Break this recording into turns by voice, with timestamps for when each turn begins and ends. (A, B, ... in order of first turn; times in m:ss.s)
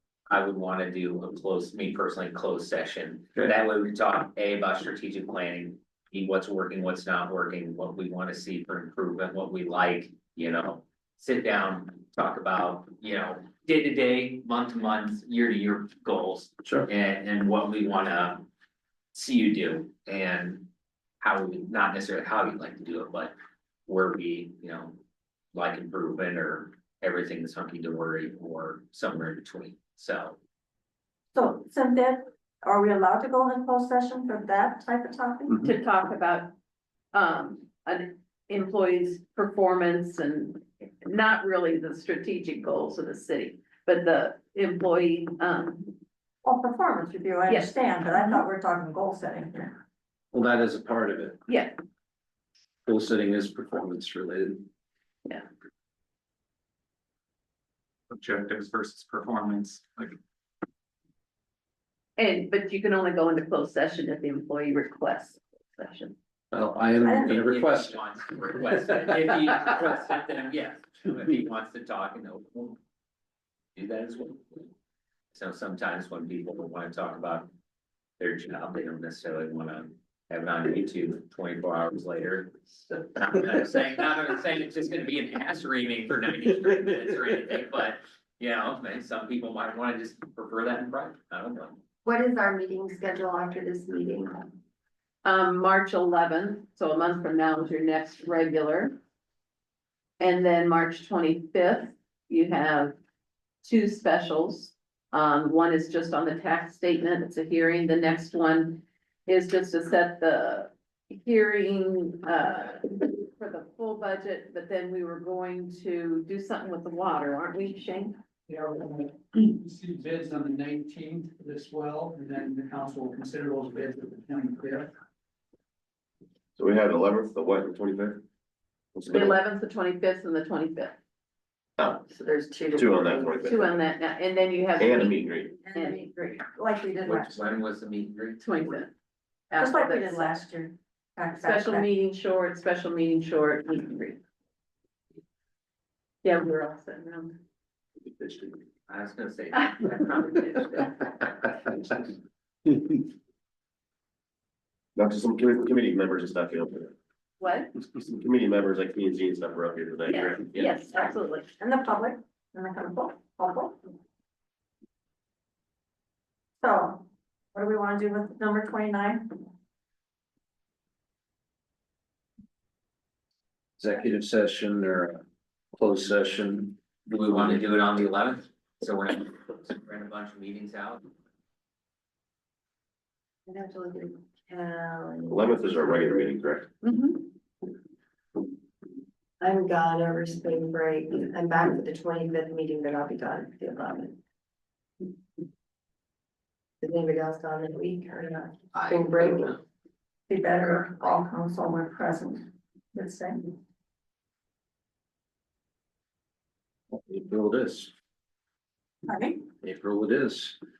0:00.3-0:18.5 A
0:19.1-0:20.7 A
0:21.2-0:23.3 A
0:23.9-0:25.0 A
0:25.5-0:30.4 A
0:31.3-0:35.6 B
0:35.5-0:36.5 C
0:37.1-0:46.0 C
0:46.4-0:49.8 B
0:47.5-0:48.4 C
0:50.3-0:51.4 D
0:51.5-0:51.8 C
0:52.9-0:54.7 D
0:58.1-1:00.2 E
1:02.2-1:06.2 C
1:06.5-1:08.0 D
1:07.0-1:12.8 A
1:13.8-1:14.7 A
1:15.3-1:17.5 A
1:18.2-1:22.6 A
1:23.1-1:31.8 A
1:32.0-1:34.5 F
1:35.2-1:39.0 C
1:40.2-1:43.0 C
1:43.6-1:58.2 C
1:58.5-2:04.9 G
2:06.6-2:08.2 H
2:09.0-2:09.4 H
2:09.1-2:11.0 C
2:11.8-2:12.0 H
2:12.0-2:13.5 F
2:12.7-2:13.8 H
2:13.4-2:16.4 C
2:14.8-2:15.6 H
2:15.6-2:17.4 B
2:17.0-2:18.5 A
2:18.4-2:18.9 C
2:19.5-2:20.4 C
2:19.6-2:21.9 B
2:21.4-2:24.2 C
2:26.2-2:27.4 C
2:28.9-2:31.8 A
2:35.0-2:37.0 H
2:37.4-2:37.7 C
2:38.0-2:40.9 H
2:40.1-2:41.5 C
2:41.6-2:43.8 B
2:46.6-2:49.5 B
2:53.8-2:56.8 D
2:57.1-3:01.0 A
3:03.5-3:06.2 F
3:05.3-3:06.7 H
3:06.8-3:07.3 C
3:09.4-3:14.2 F
3:16.8-3:19.6 F
3:18.7-3:19.6 A
3:20.3-3:23.6 B
3:26.9-3:27.9 D
3:29.1-3:29.4 B
3:29.6-3:30.6 D